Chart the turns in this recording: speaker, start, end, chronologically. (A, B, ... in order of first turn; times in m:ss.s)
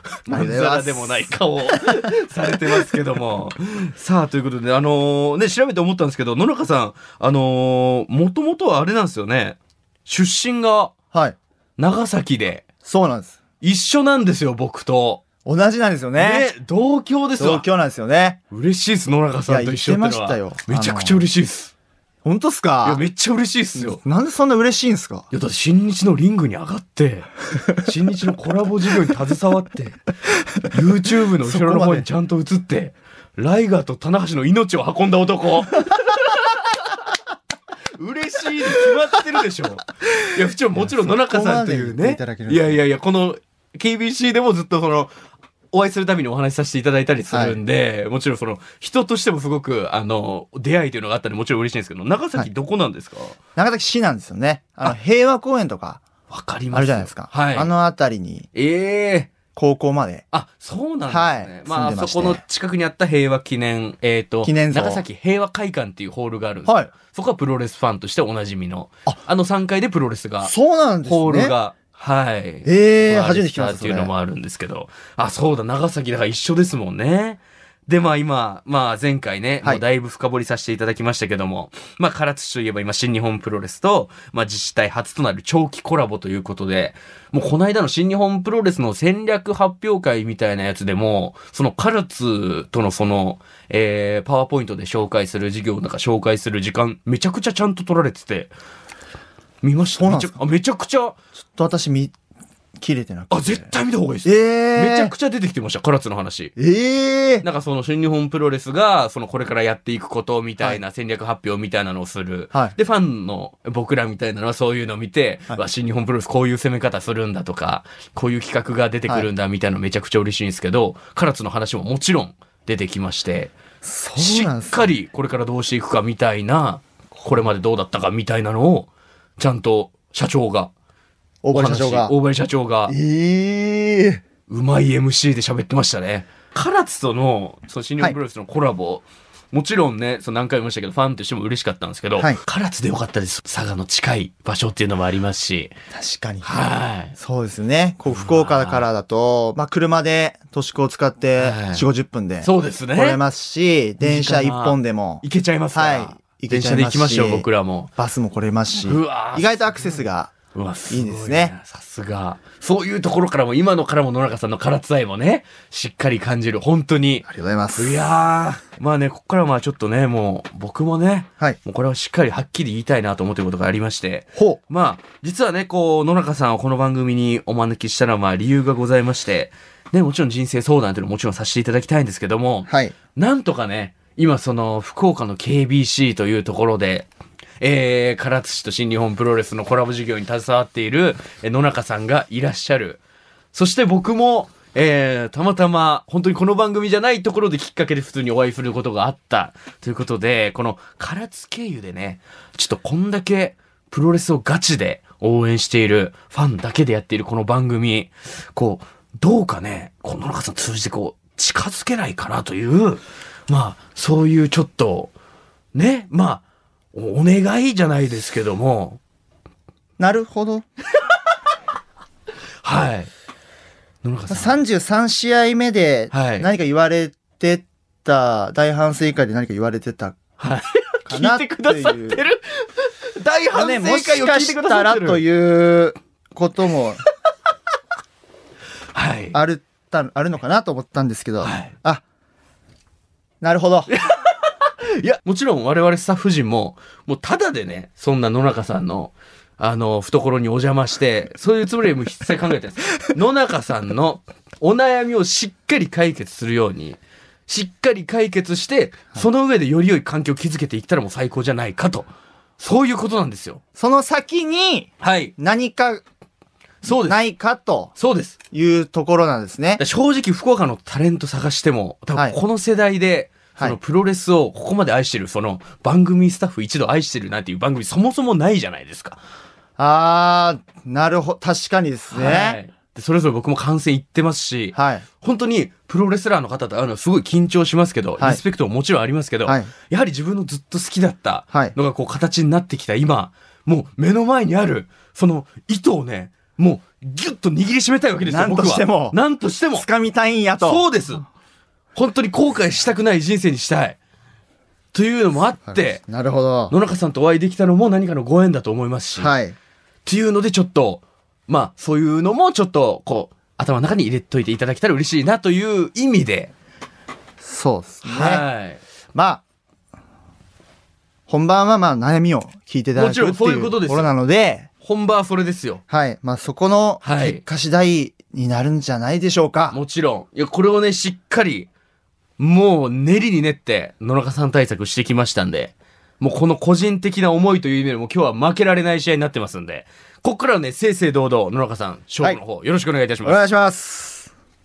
0:00.2-0:10.9 A
0:00.3-0:02.1 B
0:11.1-0:11.4 B
0:11.8-0:12.6 A
0:12.8-0:13.4 B
0:13.6-0:15.2 A
0:15.4-0:16.5 B
0:16.2-0:17.6 A
0:17.4-0:18.4 B
0:18.5-0:21.7 A
0:19.4-0:21.2 B
0:22.2-0:23.0 B
0:22.8-0:24.0 A
0:23.8-0:25.3 B
0:25.3-0:30.0 A
0:30.6-0:36.9 A
0:31.4-0:32.1 B
0:38.0-0:45.1 A
0:40.7-0:42.8 B
0:45.7-0:53.4 A
0:47.3-0:47.6 B
0:53.6-0:56.0 B
0:56.3-0:57.7 A
0:56.7-0:58.5 B
0:58.5-0:59.3 A
0:59.5-1:00.2 B
1:00.3-1:38.5 A
1:01.1-1:02.4 B
1:04.4-1:05.0 B
1:10.4-1:11.5 B
1:12.6-1:14.1 B
1:39.6-1:41.2 A
1:40.0-1:40.3 B
1:41.4-1:42.1 B
1:42.8-1:43.7 B
1:43.3-1:46.5 A
1:44.2-1:45.1 B
1:46.6-1:47.4 B
1:47.4-2:03.5 A
2:03.8-2:04.9 B
2:04.2-2:10.7 A
2:11.4-2:12.1 B
2:11.5-2:13.0 A
2:12.9-2:14.2 B
2:14.5-2:25.7 A
2:25.9-2:37.4 B
2:26.4-2:27.1 A
2:28.1-2:28.9 A
2:31.4-2:31.8 A
2:32.4-2:33.2 A
2:34.0-2:37.9 A
2:38.0-2:40.3 B
2:38.8-2:40.0 A
2:40.5-3:07.1 A
2:40.9-2:41.5 B
2:47.3-2:48.0 B
3:02.7-3:02.9 B
3:07.6-3:13.0 A
3:13.5-3:35.1 A
3:35.7-3:39.0 A
3:40.0-3:40.7 B
3:42.6-3:43.1 A
3:44.0-3:44.5 A
3:44.3-3:50.2 B
3:46.1-3:46.5 A
3:50.4-3:55.2 A
3:51.1-3:52.2 B
3:53.5-3:57.0 B
3:58.9-3:59.4 A
3:59.3-4:02.0 B
4:01.4-4:01.7 A
4:03.4-4:03.9 B
4:03.9-4:23.6 A
4:23.8-4:26.0 B
4:25.0-4:25.3 A
4:26.8-4:27.2 A
4:26.8-4:27.9 B
4:28.0-4:28.4 A
4:28.5-4:29.8 B
4:29.8-4:39.2 A
4:39.8-4:42.6 B
4:42.1-4:59.8 A
4:44.7-4:45.0 B
4:49.4-4:49.7 B
4:58.2-4:59.2 B
4:59.7-5:00.8 B
5:00.6-5:01.3 A
5:01.9-5:04.0 A
5:04.9-5:06.0 A
5:05.7-5:06.7 B
5:06.7-5:09.3 A
5:09.2-5:09.6 B
5:10.0-5:16.5 A
5:17.4-5:18.4 B
5:18.0-5:18.8 A
5:19.1-5:19.4 B
5:21.3-5:24.7 B
5:23.0-5:24.1 A
5:24.8-5:25.8 A
5:25.9-5:29.8 B
5:27.0-5:27.4 A
5:29.7-5:31.7 A
5:32.4-5:43.4 A
5:43.2-5:44.3 B